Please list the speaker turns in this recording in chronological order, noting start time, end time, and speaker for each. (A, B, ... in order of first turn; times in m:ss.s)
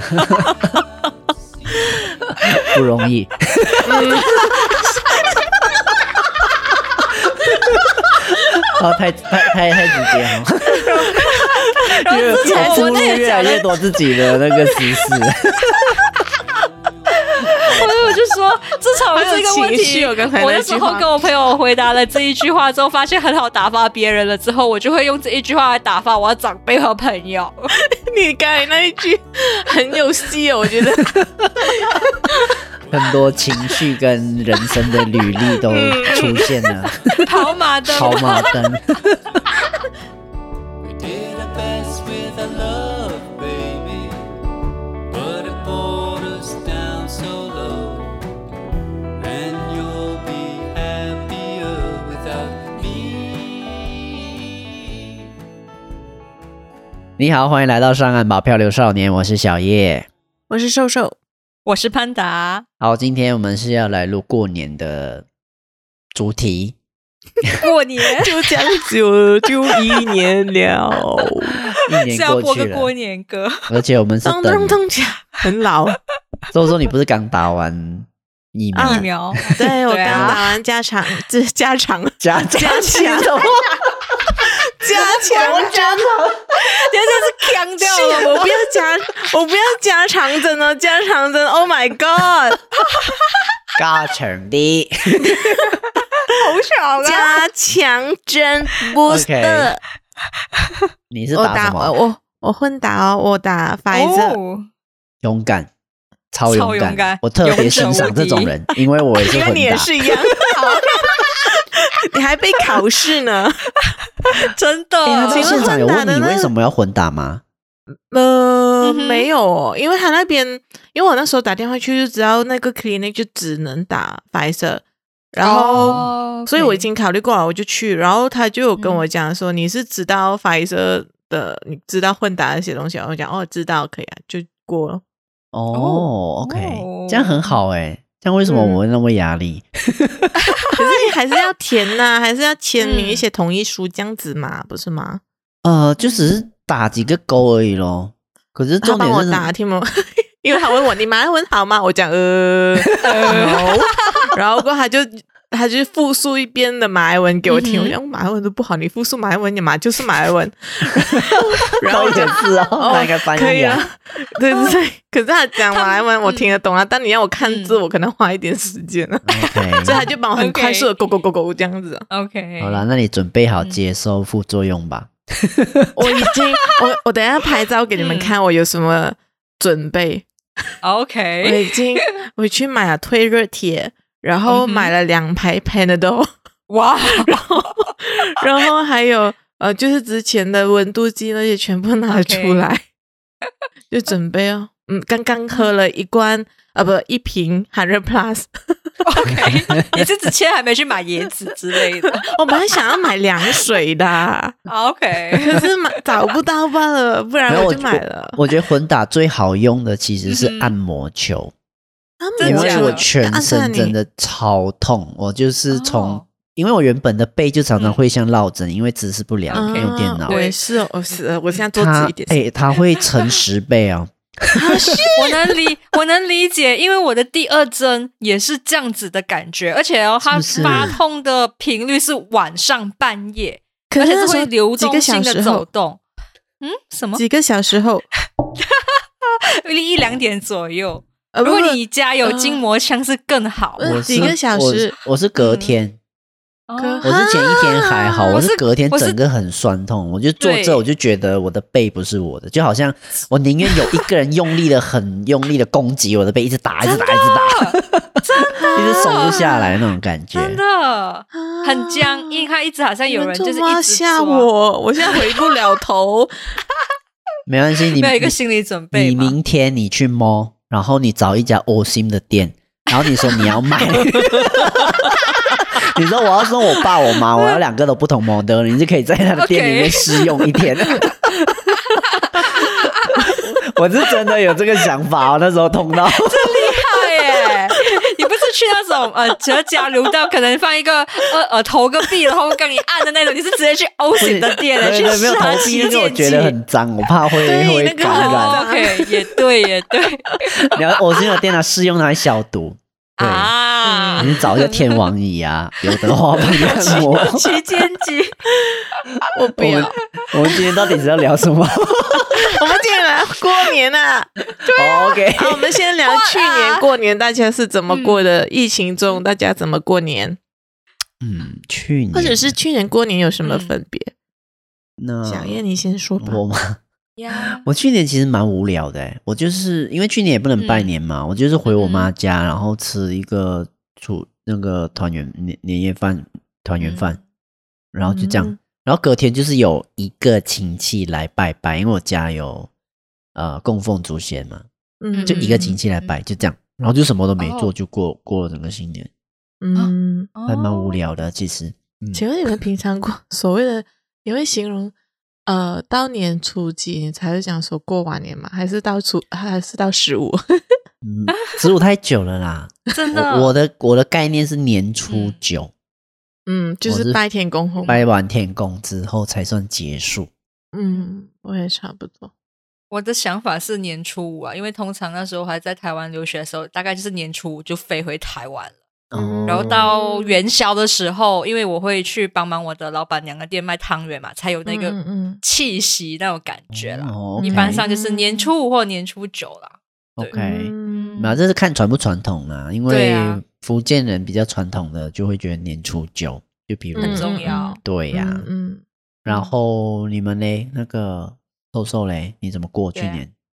0:00.1-0:00.5 A
0:02.4-0:04.1 B
0:03.8-0:04.4 C
0:04.2-0:04.8 A
0:08.7-0:11.4 B
0:10.7-0:13.8 A
0:12.0-0:15.7 B
0:12.3-0:13.3 C
0:17.1-0:27.7 A
0:17.6-0:18.2 B
0:19.1-0:21.1 C
0:27.9-0:32.6 C
0:32.9-0:37.1 B
0:35.7-0:36.3 C
0:37.2-0:38.6 A
0:37.8-0:39.2 B
0:41.0-0:44.3 D
0:45.1-0:48.2 D
0:49.2-0:55.0 D
0:57.2-1:00.1 B
1:00.5-1:01.2 C
1:01.6-1:02.6 A
1:02.8-1:05.2 B
1:06.1-1:06.8 B
1:07.6-1:08.4 A
1:08.2-1:11.6 C
1:11.8-1:12.9 B
1:12.0-1:13.7 A
1:13.7-1:14.8 B
1:14.2-1:16.0 C
1:16.5-1:20.4 B
1:18.7-1:23.3 C
1:18.8-1:20.4 A
1:22.2-1:24.2 B
1:24.4-1:26.1 C
1:25.2-1:26.4 B
1:25.2-1:25.7 A
1:26.6-1:28.8 A
1:27.8-1:32.6 C
1:32.9-1:33.4 A
1:33.8-1:35.6 B
1:35.3-1:35.7 C
1:36.3-1:37.4 A
1:37.0-1:39.8 C
1:39.1-1:39.7 B
1:41.1-1:41.9 B
1:41.3-1:44.4 C
1:43.9-1:44.7 A
1:45.2-1:45.7 B
1:46.3-1:49.9 B
1:46.4-1:48.5 A
1:49.2-1:53.7 C
1:50.6-1:51.3 A
1:54.2-1:55.7 A
1:55.0-1:57.4 B
1:55.3-1:56.5 C
1:58.1-2:15.0 C
1:58.8-1:59.3 A
2:05.4-2:06.9 A
2:05.8-2:06.1 B
2:08.8-2:09.0 A
2:15.5-2:20.3 B
2:15.7-2:17.6 A
2:18.5-2:18.8 C
2:20.7-2:25.2 C
2:22.8-2:23.2 A
2:25.6-2:29.5 B
2:26.0-2:26.3 A
2:28.8-2:52.0 C
2:33.0-2:34.3 A
2:37.5-2:37.9 A
2:41.2-2:43.8 B
2:44.5-2:44.8 A
2:45.7-2:46.5 A
2:47.4-2:47.8 A
2:49.2-2:50.0 B
2:49.8-2:50.9 A
2:52.1-2:52.8 A
2:52.6-2:56.2 B
2:55.9-3:00.3 C
2:57.9-2:58.4 A
3:00.8-3:01.8 A
3:01.4-3:06.3 C
3:04.5-3:04.9 A
3:06.7-3:07.9 A
3:07.1-3:12.8 C
3:12.1-3:12.7 A
3:13.9-3:18.9 C
3:19.0-3:22.3 A
3:22.2-3:24.6 C
3:24.7-3:26.0 A
3:25.4-3:28.4 C
3:27.5-3:31.5 B
3:30.2-3:30.7 A
3:32.2-3:34.0 C
3:32.4-3:33.0 A
3:32.4-3:40.3 B
3:35.7-3:36.2 A
3:37.8-3:38.0 A
3:39.5-3:40.6 A
3:39.5-3:42.5 C
3:41.7-3:45.0 B
3:44.5-3:45.3 C
3:45.2-3:56.0 A
3:50.2-3:51.0 B
3:50.6-3:51.0 C
3:53.9-3:55.6 C
3:56.6-3:57.2 A
3:57.2-3:58.1 C
3:58.6-3:58.9 A
3:59.6-4:04.4 A
4:01.3-4:02.6 C
4:03.8-4:05.0 C
4:03.8-4:06.0 B
4:05.4-4:05.8 A
4:06.7-4:07.0 A
4:06.8-4:08.4 C
4:07.0-4:18.2 B
4:08.3-4:09.2 A
4:10.4-4:10.8 A
4:16.8-4:19.7 A
4:18.5-4:19.4 C
4:18.7-4:20.6 B
4:20.3-4:24.5 A
4:21.3-4:22.5 C
4:23.1-4:26.3 C
4:27.5-4:28.4 B
4:28.0-4:29.4 A
4:28.9-4:41.3 B
4:32.9-4:33.6 A
4:39.3-4:40.3 A
4:41.7-4:43.4 A
4:43.6-4:46.8 B
4:46.2-4:56.6 A
4:54.2-4:58.6 B
4:57.4-4:59.1 C
4:58.0-5:00.3 A
5:00.6-5:03.5 B
5:03.2-5:05.0 A
5:03.8-5:04.5 C
5:04.2-5:07.5 B
5:06.6-5:07.4 C
5:06.6-5:08.4 A
5:08.7-5:09.9 C
5:09.6-5:12.5 B
5:12.4-5:14.3 C
5:14.6-5:15.2 A
5:14.7-5:15.7 B
5:15.4-5:20.4 C
5:16.0-5:16.8 A
5:17.9-5:18.2 A
5:21.2-5:22.5 B
5:22.1-5:24.1 C
5:23.4-5:23.8 A
5:25.0-5:25.6 B
5:25.2-5:26.4 C
5:26.2-5:26.8 B
5:27.2-5:27.6 A
5:27.6-5:37.2 B
5:30.6-5:30.9 A
5:31.6-5:32.1 A
5:36.8-5:37.2 A
5:37.9-5:42.7 B
5:38.1-5:38.6 C
5:43.3-5:44.6 B
5:45.0-5:45.8 C
5:45.1-5:46.1 A
5:45.2-5:49.1 B
5:47.4-5:47.7 A
5:49.6-5:50.3 C
5:49.7-5:51.0 A
5:50.4-5:52.2 B
5:52.1-5:54.9 C
5:55.4-6:00.4 C
6:01.0-6:05.7 B
6:02.9-6:03.5 A
6:05.1-6:05.4 A
6:06.4-6:08.0 C
6:06.8-6:07.2 B
6:07.9-6:10.3 B
6:10.7-6:12.3 C
6:12.9-6:18.8 A
6:19.1-6:19.9 B
6:19.1-6:20.4 C
6:19.4-6:31.4 A
6:24.6-6:25.4 C
6:26.7-6:27.8 B
6:27.4-6:28.5 C
6:30.2-6:38.5 B
6:30.3-6:31.2 C
6:32.9-6:33.4 A
6:37.0-6:37.8 A
6:37.0-6:38.8 C
6:39.2-6:43.3 B
6:39.3-6:39.5 A
6:42.9-6:43.2 A